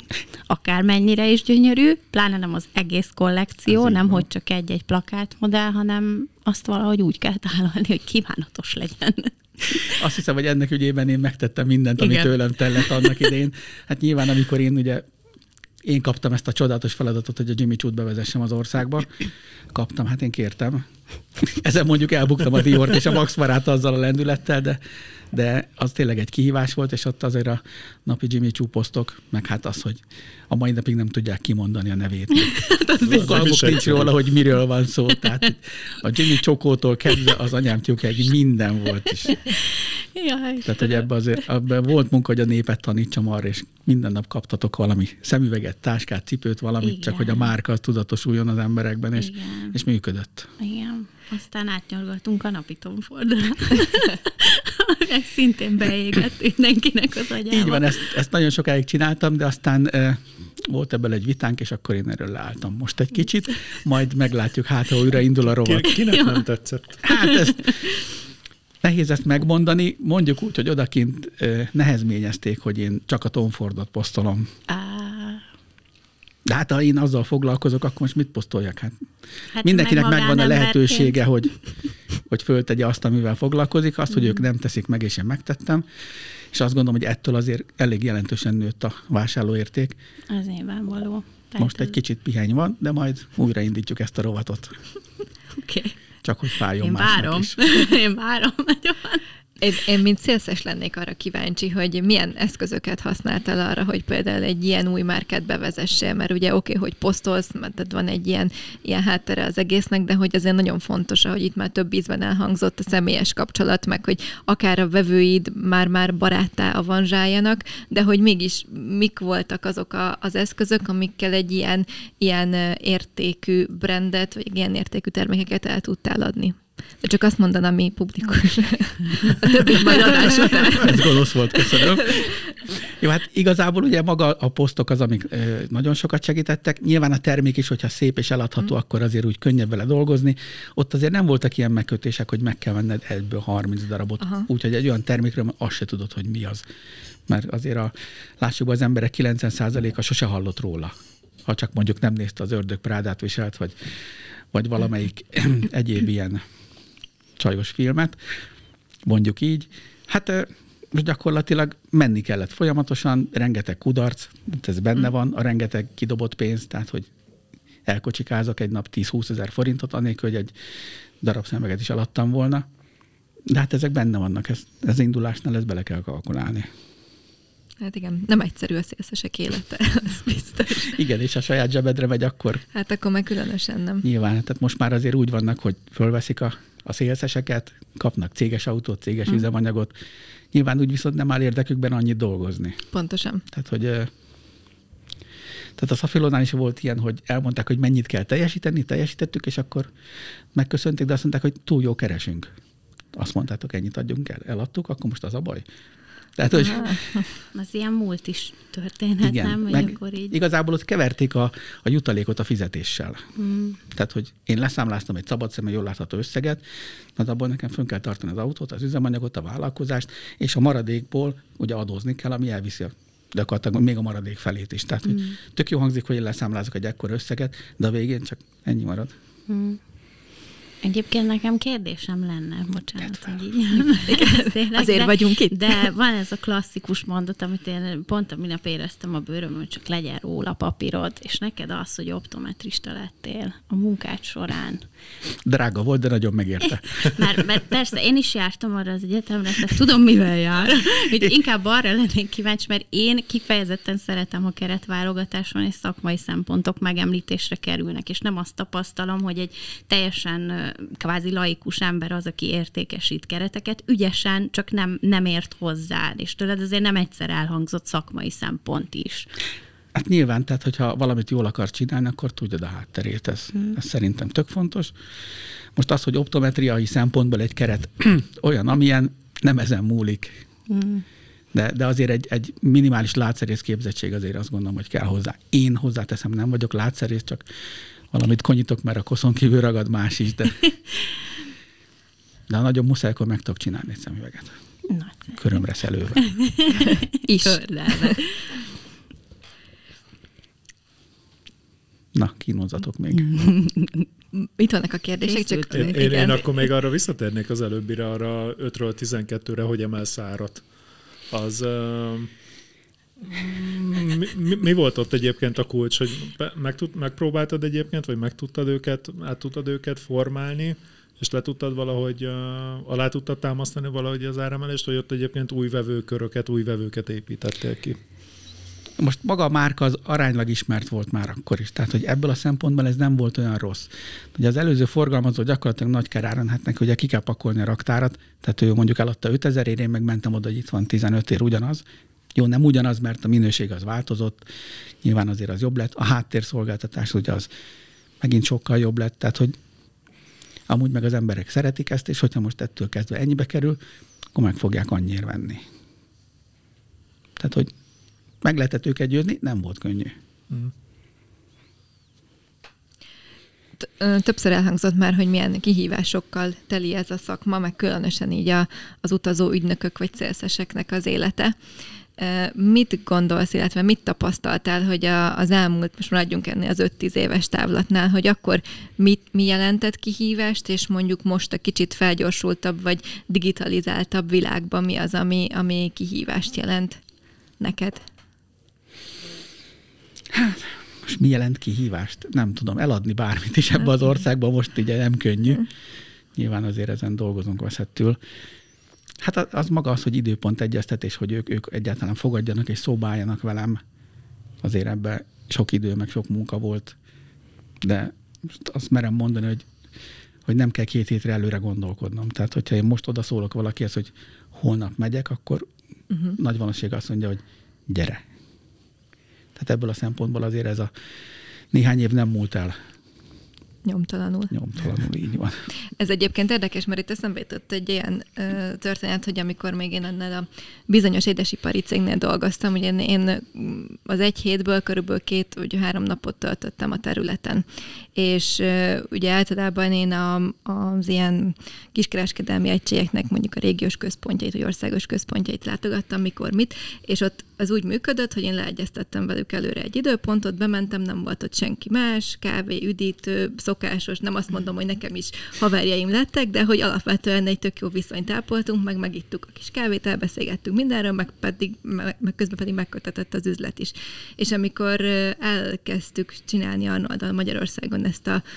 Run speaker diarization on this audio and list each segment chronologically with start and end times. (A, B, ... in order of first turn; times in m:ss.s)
0:00.5-0:10.0 A
0:03.7-0:04.3 B
0:09.9-0:15.1 B
0:12.0-0:13.3 A
0:15.8-0:20.8 B
0:21.4-0:39.5 B
0:33.0-0:34.2 C
0:39.5-0:41.0 A
0:40.6-0:50.6 B
0:46.8-0:47.5 A
0:49.2-0:49.8 A
0:50.6-0:58.0 A
0:57.5-1:05.9 B
1:05.6-1:07.3 C
1:06.1-1:06.4 A
1:07.0-1:07.9 B
1:08.8-1:14.5 B
1:14.7-1:15.4 A
1:16.5-1:19.0 B
1:19.5-1:21.2 A
1:19.6-1:21.6 B
1:22.3-1:25.9 B
1:26.5-1:30.0 B
1:30.3-1:31.9 A
1:31.6-1:34.8 B
1:35.6-1:35.9 A
1:36.2-1:37.8 B
1:36.8-1:39.2 A
1:39.6-2:12.4 D
2:09.9-2:26.6 B
2:10.3-2:10.6 A
2:24.2-2:24.5 D
2:27.3-2:30.9 B
2:31.5-2:33.9 B
2:34.5-2:36.4 B
2:37.4-2:38.2 B
2:39.1-2:47.1 B
2:47.9-2:50.5 B
2:51.2-2:52.7 B
2:53.5-2:56.7 B
2:57.8-3:01.0 D
3:00.8-3:02.6 B
3:02.7-3:04.0 D
3:04.0-3:09.9 B
3:10.5-3:12.8 B
3:12.9-3:13.4 D
3:13.5-3:14.1 B
3:15.8-3:19.9 B
3:20.5-3:22.5 B
3:23.1-3:25.6 B
3:26.4-3:27.0 B
3:26.5-3:27.3 D
3:27.5-3:30.4 A
3:29.2-3:33.3 B
3:33.4-3:33.8 A
3:33.8-3:36.6 B
3:37.2-3:49.1 B
3:49.5-3:49.8 A
3:50.8-4:04.8 A
3:53.0-3:53.4 B
3:54.1-3:55.9 D
4:05.4-4:07.5 B
4:07.1-4:29.3 A
4:30.0-4:35.0 B
4:35.8-4:40.4 B
4:40.7-4:41.0 A
4:41.5-4:47.4 B
4:48.1-4:50.7 B
4:52.5-4:54.5 B
4:54.9-4:55.4 A
4:55.4-4:56.4 B
4:56.9-4:58.2 D
4:57.4-4:58.4 A
5:02.1-5:03.5 B
5:03.4-5:04.0 A
5:04.3-5:06.6 D
5:05.2-5:06.0 A
5:05.7-5:10.6 C
5:11.3-5:12.3 C
5:13.2-5:28.0 C
5:29.0-5:41.8 B
5:42.4-5:44.4 B
5:45.0-5:47.5 B
5:48.2-5:49.6 B
5:50.7-5:53.8 B
5:54.3-5:55.6 B
5:57.4-5:57.7 B
5:58.4-6:00.1 B
6:03.8-6:11.6 D
6:12.2-6:27.0 D
6:27.6-6:28.0 D
6:30.3-6:35.7 B
6:36.4-6:38.2 B
6:39.2-6:43.8 B
6:44.6-6:47.0 B
6:47.8-6:49.7 B
6:50.5-6:55.7 B
6:56.1-6:56.4 D
6:56.4-6:58.2 B
6:59.6-7:00.9 B
7:01.7-7:02.8 B
7:03.8-7:04.5 D
7:04.5-7:05.7 B
7:06.0-7:48.4 D